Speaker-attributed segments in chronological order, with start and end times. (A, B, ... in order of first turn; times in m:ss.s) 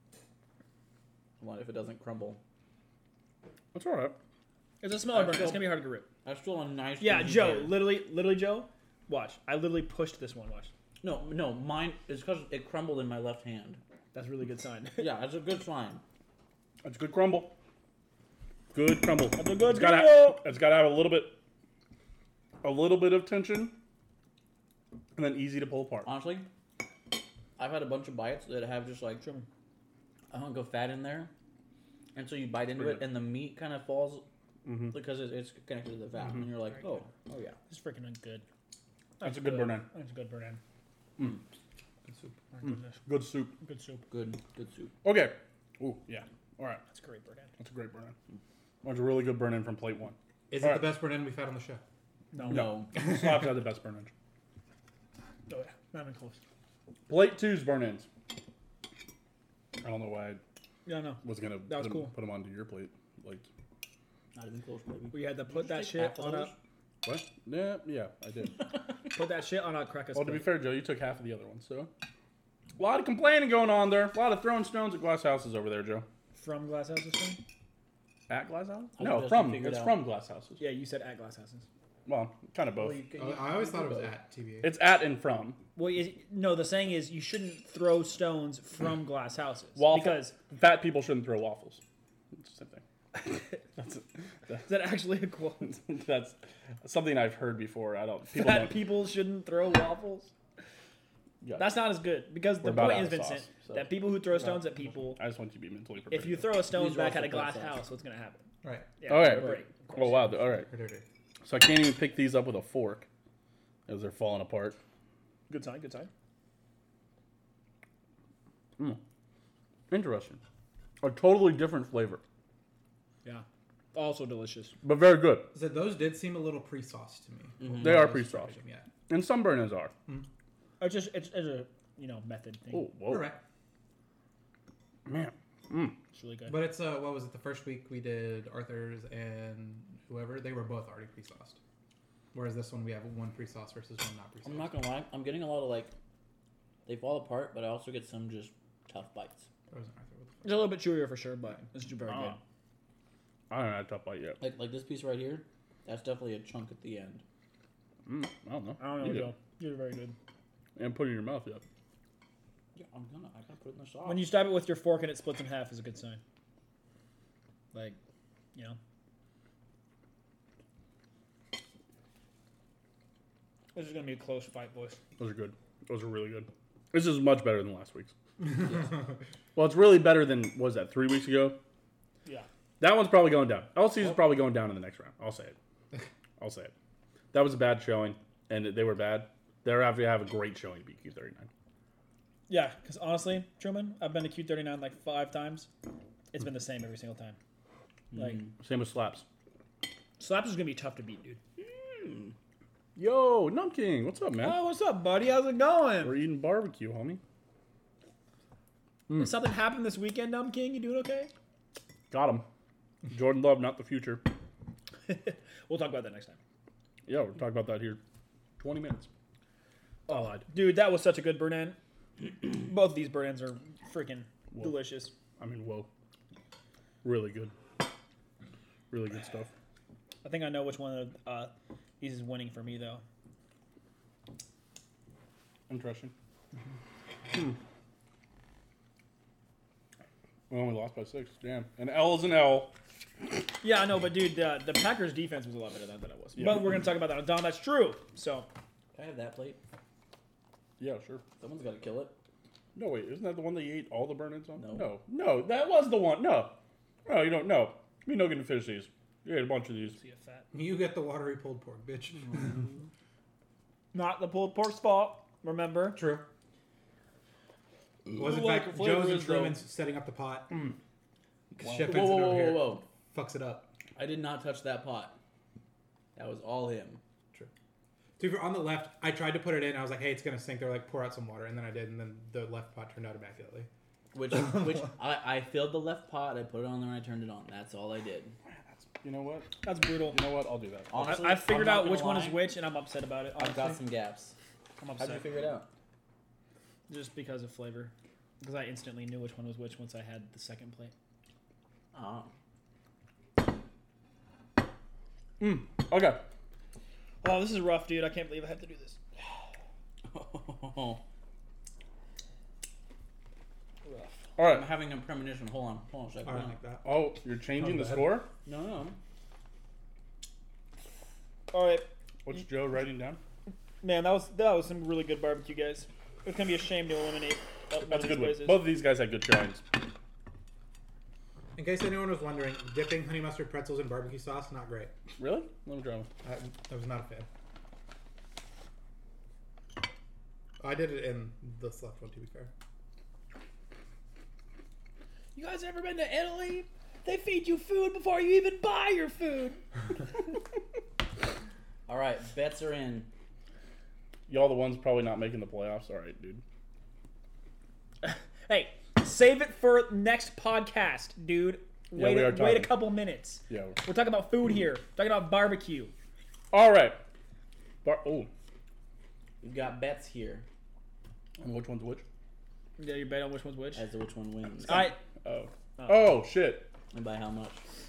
0:01.4-0:02.4 A
0:03.7-0:04.2 B
0:04.8-0:06.1 C
0:05.1-0:07.8 A
0:07.0-0:10.7 C
0:11.0-0:13.8 A
0:14.1-0:15.1 C
0:15.0-0:16.0 A
0:16.8-0:17.5 B
0:18.7-0:21.4 B
0:19.4-0:20.4 C
0:22.6-0:23.8 B
0:25.2-0:26.1 B
0:26.0-0:26.5 A
0:27.6-0:29.2 A
0:29.2-0:29.5 C
0:30.3-0:31.3 A
0:32.1-0:34.2 A
0:32.7-0:33.2 B
0:34.6-0:35.0 B
0:34.9-0:37.6 A
0:37.7-0:38.4 C
0:39.2-0:40.6 C
0:39.2-0:39.8 B
0:42.1-0:42.4 D
0:42.5-0:43.0 C
0:42.6-0:43.5 B
0:43.6-0:44.0 C
0:44.1-0:44.9 A
0:45.0-0:46.8 B
0:46.9-0:47.5 C
0:47.6-0:48.1 B
0:48.8-0:50.9 B
0:50.5-0:51.8 D
0:52.3-0:52.8 C
0:52.4-0:52.9 A
0:52.5-0:54.1 B
0:55.5-0:56.4 C
0:57.1-0:58.1 B
0:59.8-1:00.4 B
1:00.8-1:02.1 C
1:01.2-1:03.4 B
1:04.3-1:06.6 A
1:05.1-1:06.5 C
1:07.0-1:08.7 B
1:09.1-1:10.5 C
1:10.1-1:11.9 B
1:12.8-1:16.0 B
1:16.3-1:17.4 C
1:18.3-1:20.6 B
1:19.0-1:20.0 A
1:20.6-1:21.6 C
1:22.0-1:23.0 B
1:22.8-1:24.1 A
1:23.1-1:24.7 D
1:24.6-1:25.6 B
1:25.7-1:30.4 C
1:29.8-1:31.8 B
1:32.3-1:32.8 B
1:33.8-1:34.8 B
1:34.6-1:35.7 C
1:35.6-1:38.8 B
1:38.3-1:40.3 C
1:41.4-1:41.9 B
1:41.6-1:45.2 C
1:42.6-1:43.9 B
1:45.1-1:46.5 B
1:46.1-1:48.5 C
1:46.7-1:47.8 A
1:48.6-1:49.2 D
1:49.0-1:50.2 C
1:49.1-1:50.7 B
1:50.5-1:51.0 D
1:51.4-1:53.1 B
1:53.9-1:54.8 B
1:55.5-1:56.1 C
1:59.9-2:00.4 B
2:01.0-2:02.2 B
2:03.2-2:04.8 C
2:04.8-2:05.5 B
2:05.5-2:08.9 D
2:07.6-2:08.0 A
2:07.8-2:08.5 B
2:09.1-2:09.9 B
2:10.8-2:12.9 C
2:12.7-2:13.3 B
2:13.1-2:13.4 D
2:15.0-2:16.0 B
2:16.1-2:16.6 C
2:16.5-2:21.6 D
2:22.3-2:24.7 D
2:24.4-2:25.9 A
2:26.8-2:29.5 A
2:29.7-2:30.6 D
2:30.4-2:32.4 C
2:32.1-2:32.4 B
2:33.5-2:34.4 B
2:34.4-2:37.2 A
2:38.0-2:39.3 B
2:38.8-2:40.2 C
2:40.8-2:41.6 B
2:42.8-2:44.3 A
2:44.0-2:46.2 C
2:53.7-2:55.0 C
2:55.2-2:58.1 B
2:59.5-3:01.6 B
3:02.8-3:05.6 B
3:06.4-3:06.7 B
3:07.3-3:11.5 B
3:12.5-3:15.7 C
3:16.3-3:17.4 C
3:18.1-3:18.4 C
3:18.5-3:19.2 B
3:20.2-3:21.4 C
3:23.0-3:24.6 B
3:24.4-3:26.2 C
3:26.0-3:27.2 B
3:29.1-3:29.3 B
3:29.1-3:31.3 C
3:32.1-3:32.5 B
3:33.1-3:34.2 B
3:35.1-3:36.4 C
3:37.0-3:38.0 B
3:38.6-3:39.1 B
3:40.1-3:40.4 B
3:40.4-3:45.1 C
3:45.4-3:45.9 B
3:47.0-3:47.5 B
3:48.9-3:49.5 B
3:50.2-3:53.0 C
3:55.7-3:56.1 B
3:57.3-3:57.6 B
4:00.5-4:02.7 B
4:03.6-4:08.5 C
4:06.4-4:06.7 B
4:08.9-4:09.6 A
4:10.8-4:11.2 B
4:11.4-4:12.2 A
4:12.7-4:20.0 B
4:14.6-4:14.9 A
4:19.9-4:20.5 C
4:20.5-4:22.6 D
4:23.9-4:26.0 C
4:25.9-4:26.3 D
4:28.1-4:30.7 D
4:28.2-4:29.3 C
4:31.6-4:33.7 D
4:31.6-4:32.8 A
4:31.7-4:32.0 B
4:34.0-4:35.2 A
4:36.2-4:37.0 A
4:38.2-4:43.7 D
4:44.1-4:48.3 A
4:48.4-4:51.1 B
4:49.6-4:50.2 C
4:50.9-4:52.4 A
4:51.0-4:53.8 C
4:53.4-4:54.3 A
4:54.8-4:55.3 C
4:55.0-4:55.7 A
4:56.9-5:00.9 C
5:01.9-5:02.3 A
5:05.4-5:06.2 B
5:07.2-5:09.0 C
5:10.1-5:11.0 A
5:13.8-5:14.2 C
5:14.4-5:14.7 B
5:14.4-5:16.5 A
5:16.2-5:16.9 D
5:16.8-5:18.3 B
5:17.6-5:18.2 D
5:18.4-5:19.0 A
5:21.5-5:21.9 C
5:22.2-5:23.2 B
5:23.8-5:28.6 C
5:27.8-5:29.6 B
5:31.5-5:34.9 D
5:35.2-5:36.1 B
5:36.2-5:37.3 D
5:40.6-5:42.5 D
5:45.3-5:49.6 C
5:51.9-5:53.1 A
5:54.3-5:56.4 B
5:58.0-6:05.9 C
6:01.9-6:02.8 B
6:03.5-6:03.8 B
6:06.5-6:07.0 B
6:07.8-6:08.3 B
6:09.4-6:10.4 A
6:11.4-6:12.0 B
6:12.8-6:13.8 C
6:13.7-6:14.9 A
6:14.6-6:15.0 C
6:14.7-6:16.7 B
6:15.8-6:16.2 C
6:16.9-6:17.6 A